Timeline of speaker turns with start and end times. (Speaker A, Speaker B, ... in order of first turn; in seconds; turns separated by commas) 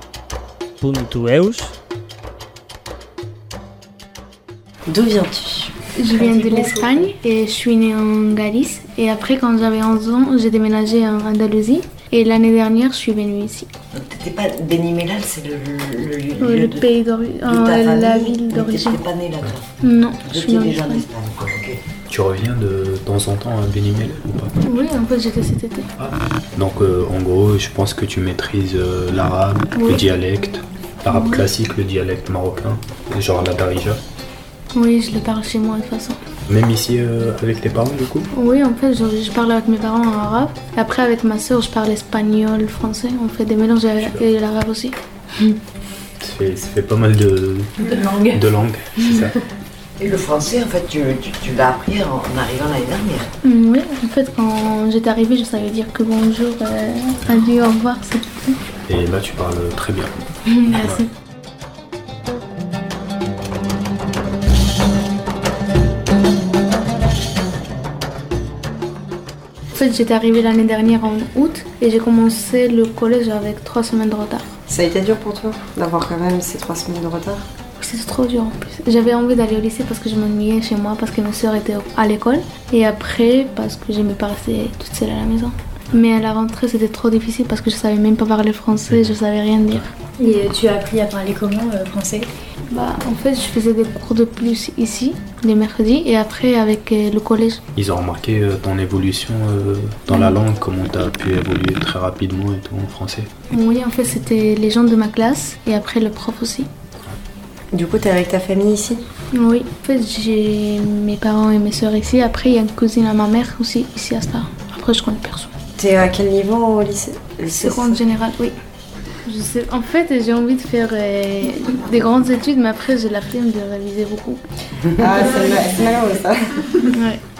Speaker A: 0.8-1.7, Speaker B: 4.9-6.6, Speaker C: 5.9-13.7, Speaker A: 6.7-7.0, Speaker D: 13.9-16.9, Speaker C: 16.4-19.0, Speaker D: 17.4-19.6, Speaker C: 19.8-21.0, Speaker D: 20.2-21.8, Speaker E: 22.1-24.5, Speaker C: 24.6-25.9, Speaker E: 26.0-34.0, Speaker C: 29.8-30.0, Speaker C: 31.1-31.5, Speaker C: 34.7-36.2, Speaker E: 36.5-38.3, Speaker C: 38.3-45.6, Speaker E: 44.0-44.2, Speaker E: 46.2-49.4, Speaker D: 50.0-53.3, Speaker C: 53.4-58.6, Speaker E: 58.9-60.1, Speaker C: 60.5-61.0, Speaker E: 60.7-61.0, Speaker C: 69.7-74.5, Speaker B: 74.7-77.4, Speaker C: 77.8-89.9, Speaker A: 90.2-92.3, Speaker C: 92.7-97.6, Speaker E: 97.8-103.3, Speaker C: 100.1-100.3, Speaker C: 103.5-106.7, Speaker B: 107.7-109.0, Speaker C: 109.3-115.5, Speaker B: 115.8-118.0, Speaker C: 117.5-118.5, Speaker C: 119.2-124.4, Speaker B: 125.0-126.8, Speaker C: 126.9-127.2